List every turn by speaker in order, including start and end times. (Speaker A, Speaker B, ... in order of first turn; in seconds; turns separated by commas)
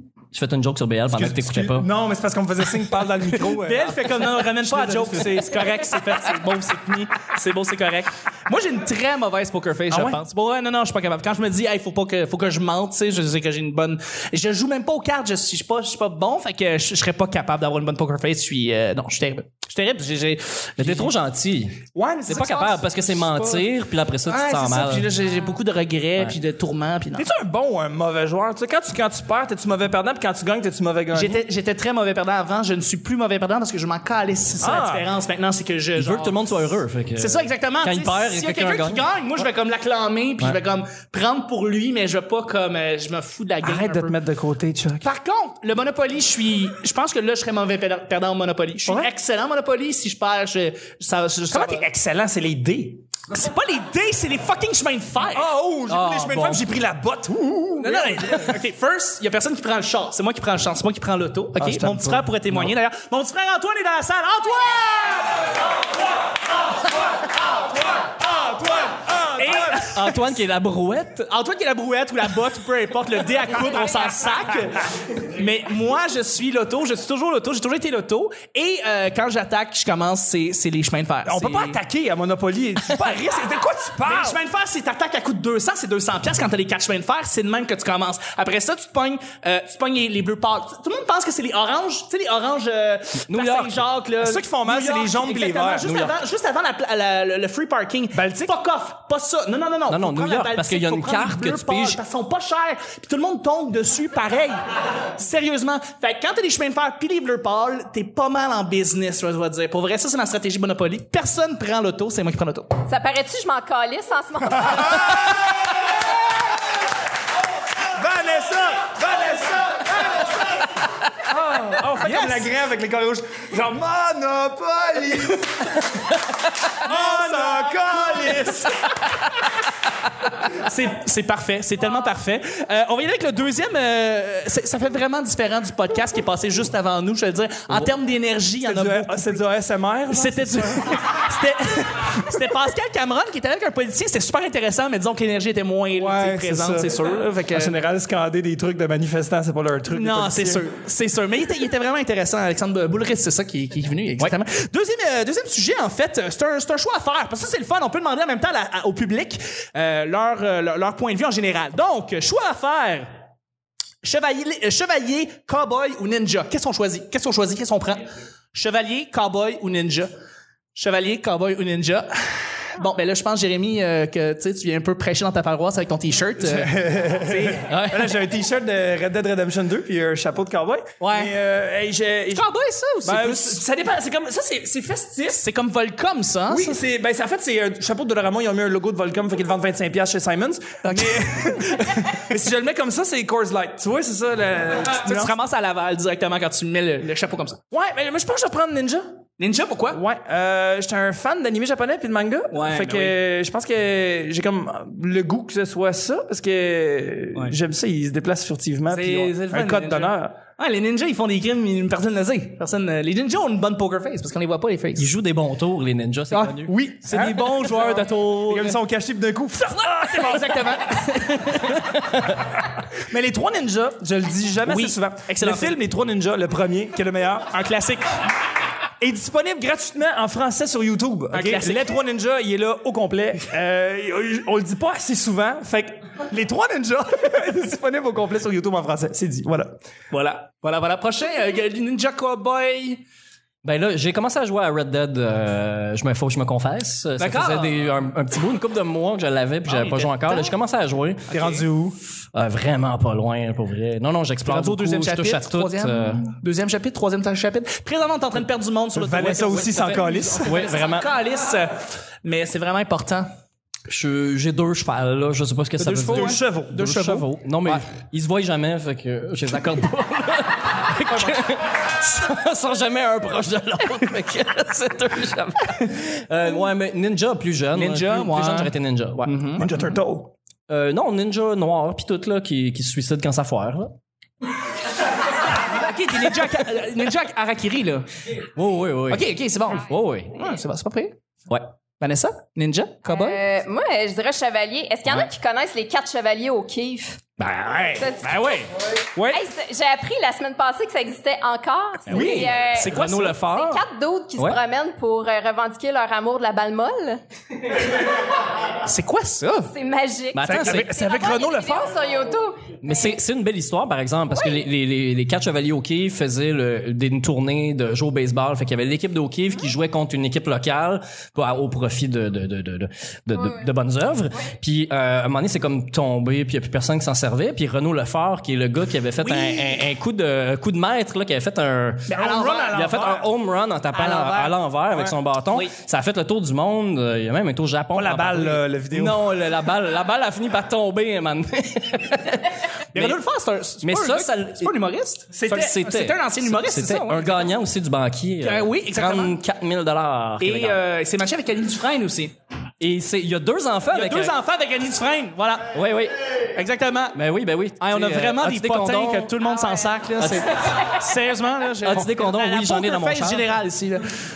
Speaker A: 0.3-1.9, Speaker B: 1.1-5.7, Speaker C: 3.3-21.1, Speaker B: 9.9-10.2, Speaker A: 20.8-25.1, Speaker C: 22.0-23.7, Speaker C: 24.3-27.3, Speaker B: 27.1-31.4, Speaker C: 31.1-36.6, Speaker B: 34.6-35.1, Speaker A: 36.0-39.1, Speaker C: 37.2-44.2, Speaker B: 43.6-45.1, Speaker C: 45.0-51.9, Speaker B: 51.5-53.0, Speaker C: 53.3-55.5, Speaker B: 55.3-58.6, Speaker A: 55.9-56.7, Speaker C: 57.8-65.4, Speaker B: 61.6-62.3, Speaker B: 68.0-70.0, Speaker C: 69.3-70.4, Speaker A: 69.8-71.2, Speaker C: 71.2-81.8, Speaker B: 81.2-84.4, Speaker C: 84.0-112.7, Speaker A: 93.3-93.8, Speaker B: 94.2-95.9, Speaker A: 95.8-96.2, Speaker B: 98.1-98.5, Speaker A: 99.9-102.0, Speaker D: 112.9-115.3, Speaker B: 114.7-115.8, Speaker B: 117.8-120.5, Speaker B: 121.2-126.1, Speaker C: 122.0-122.5, Speaker B: 126.8-128.8, Speaker C: 126.8-128.4, Speaker C: 130.4-139.4, Speaker B: 138.6-141.1, Speaker C: 140.1-147.7, Speaker B: 145.9-150.7, Speaker C: 149.9-163.1, Speaker C: 164.0-170.1, Speaker C: 170.8-178.1, Speaker B: 176.4-182.5, Speaker C: 181.0-181.3, Speaker C: 182.3-183.6, Speaker B: 183.0-185.4, Speaker C: 185.3-186.8, Speaker B: 186.5-195.3, Speaker C: 190.8-192.2, Speaker C: 194.9-197.6, Speaker B: 197.7-199.2, Speaker C: 199.4-200.0, Speaker B: 199.9-210.4, Speaker C: 202.5-203.2, Speaker C: 208.9-215.1, Speaker A: 215.0-216.8, Speaker C: 216.3-218.8, Speaker B: 216.7-220.8, Speaker C: 219.7-222.0, Speaker B: 222.9-227.5, Speaker C: 224.7-225.8, Speaker C: 227.5-228.1, Speaker B: 229.0-239.8, Speaker C: 231.3-231.9, Speaker C: 240.1-243.0, Speaker A: 243.6-251.3, Speaker C: 247.2-247.8, Speaker C: 249.7-250.5, Speaker C: 251.3-251.6, Speaker B: 251.3-252.0, Speaker A: 252.3-256.2, Speaker C: 254.4-263.3, Speaker B: 258.9-260.6, Speaker A: 260.4-261.1, Speaker A: 263.9-279.6, Speaker C: 265.8-267.8, Speaker B: 266.0-267.0, Speaker C: 271.1-271.4, Speaker C: 277.7-279.7, Speaker B: 279.6-280.3, Speaker A: 280.7-283.9, Speaker C: 285.5-288.1, Speaker A: 288.6-290.3, Speaker C: 289.1-291.2, Speaker C: 292.0-293.4, Speaker D: 293.1-297.2, Speaker C: 297.4-299.4, Speaker D: 298.0-298.4, Speaker D: 299.3-307.2, Speaker C: 302.1-303.7, Speaker A: 302.1-303.8, Speaker C: 308.7-309.7, Speaker D: 309.7-313.0, Speaker A: 310.3-310.9, Speaker C: 310.5-311.8, Speaker B: 310.5-311.8, Speaker A: 312.8-343.2, Speaker D: 314.3-314.6, Speaker D: 323.4-323.6, Speaker C: 329.2-329.8, Speaker C: 332.1-333.1, Speaker B: 332.1-333.3, Speaker C: 333.9-334.6, Speaker B: 337.9-339.2, Speaker C: 342.9-347.5, Speaker A: 343.8-344.7, Speaker B: 345.3-345.8, Speaker A: 345.5-350.8, Speaker C: 348.4-349.4, Speaker C: 350.4-352.3, Speaker A: 352.8-354.4, Speaker C: 353.9-355.7, Speaker A: 355.7-356.2, Speaker C: 356.5-357.2, Speaker A: 357.1-359.4, Speaker C: 357.8-364.2, Speaker D: 359.5-359.8, Speaker A: 360.2-361.0, Speaker A: 361.8-363.6